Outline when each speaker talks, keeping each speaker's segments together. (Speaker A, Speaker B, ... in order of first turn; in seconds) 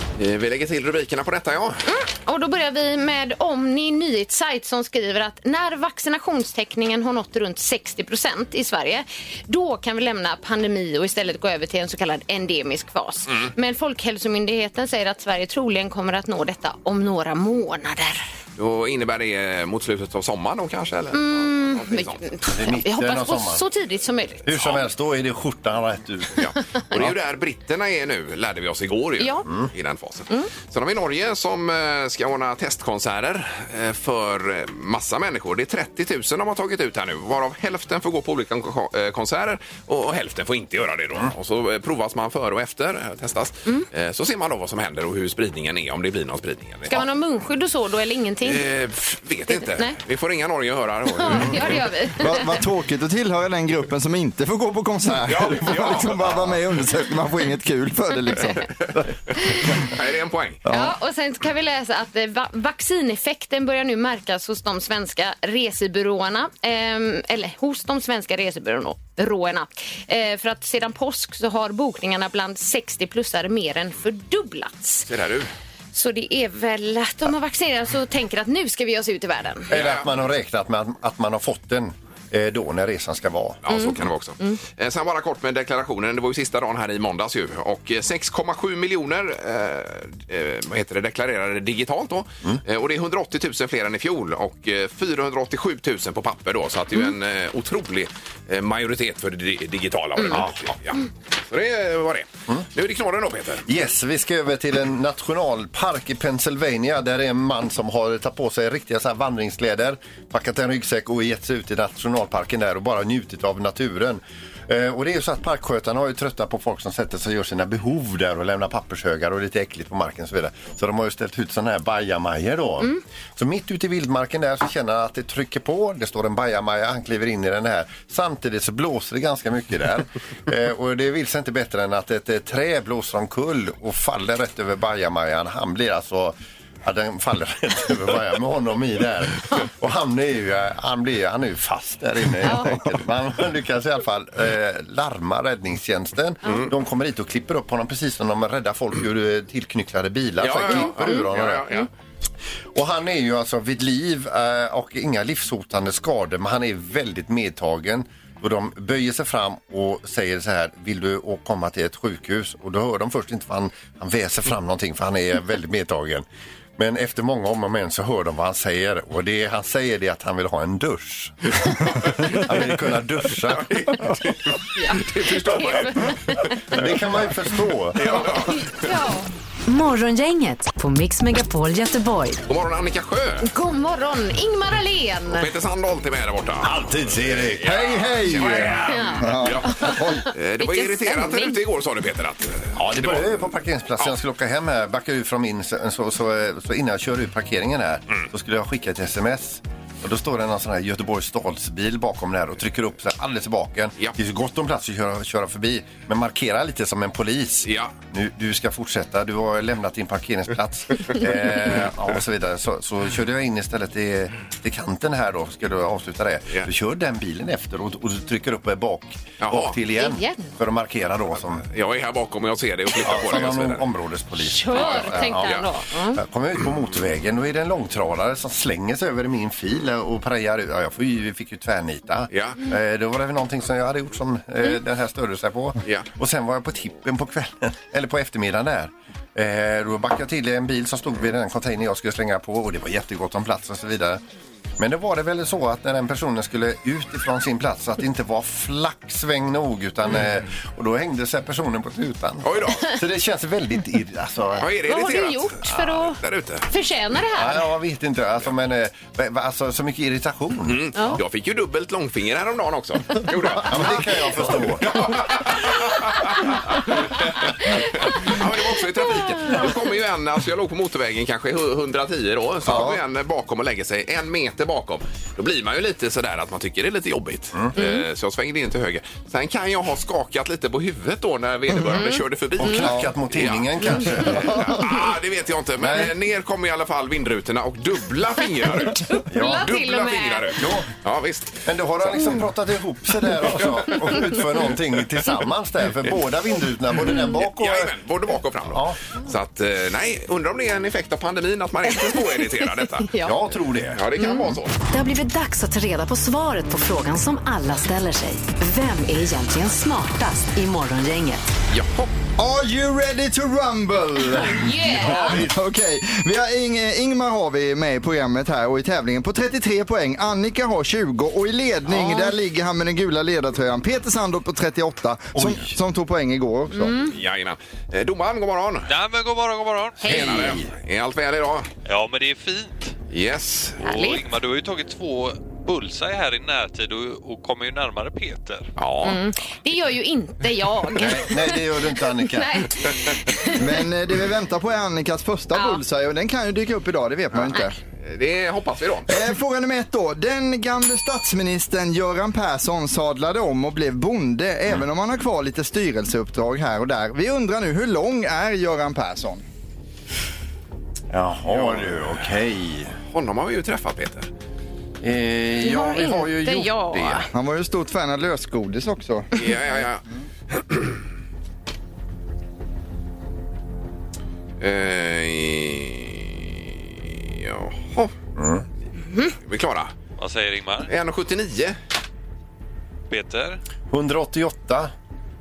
Speaker A: 0.2-1.8, 18.6-22.3, 26.4-47.0, 48.4-51.8, 55.3-56.3, 59.8-60.6, 75.1-75.5, 79.7-80.1, 83.6-103.7, 150.4-151.9, 173.6-176.5, 178.0-178.9, 182.5-183.5, 185.3-193.3, 207.7-207.9, 219.4-219.8, 221.7-223.8, 224.7-225.7, 232.3-232.6, 252.4-252.8, 254.6-256.7, 260.7-267.4, 267.9-292.2, 293.6-294.2, 297.4-303.1, 303.9-304.8, 311.7-312.1, 327.1-328.9, 330.1-331.7, 333.1-333.8, 338.8-339.2, 348.0-349.1, 361.5-362.1, 363.1-364.3, 369.3-371.0, 374.6-378.1, 379.4-379.9, 380.9-381.8
Speaker B: 1.9-18.2, 21.1-24.6, 29.2-29.5, 46.9-48.6, 49.5-50.0, 51.1-52.5, 58.4-58.6, 60.7-75.1, 75.9-79.7, 142.4-142.8, 150.7-151.9, 174.8-176.5, 178.2-179.3, 183.4-185.5, 188.7-191.6, 219.9-220.5, 224.4-226.2, 254.9-257.6, 277.8-278.0, 281.9-282.8, 288.8-290.6, 301.9-302.5, 303.0-303.4, 304.2-304.6, 314.4-315.4, 321.9-322.3, 326.7-327.2, 330.0-330.5, 333.9-334.2, 339.0-343.6, 345.5-345.8, 365.6-367.3, 379.1-379.3
Speaker C: 22.5-23.6, 24.4-27.1, 79.7-83.6, 103.7-151.7, 152.7-166.2, 166.8-173.9, 176.7-178.3, 186.6-187.9, 192.8-221.7, 223.0-244.2, 244.8-254.7, 257.3-261.2, 263.4-265.2, 282.6-284.8, 285.8-286.1, 289.3-289.8, 290.6-290.9, 291.6-297.9, 298.6-299.0, 303.2-304.0, 315.0-315.5, 325.4-325.7, 330.0-330.7, 341.0-342.7, 361.1-363.0, 365.0-367.2, 378.4-378.6, 383.9-384.9
Speaker D: 52.2-58.6, 60.6-60.9, 187.6-190.2, 312.4-314.7, 315.2-326.9, 343.6-347.8, 349.1-359.4, 367.3-369.3
Speaker E: 179.7-182.4, 304.9-311.5
Speaker F: 328.9-330.1, 331.9-333.0, 333.8-338.7, 380.2-380.9, 383.1-383.6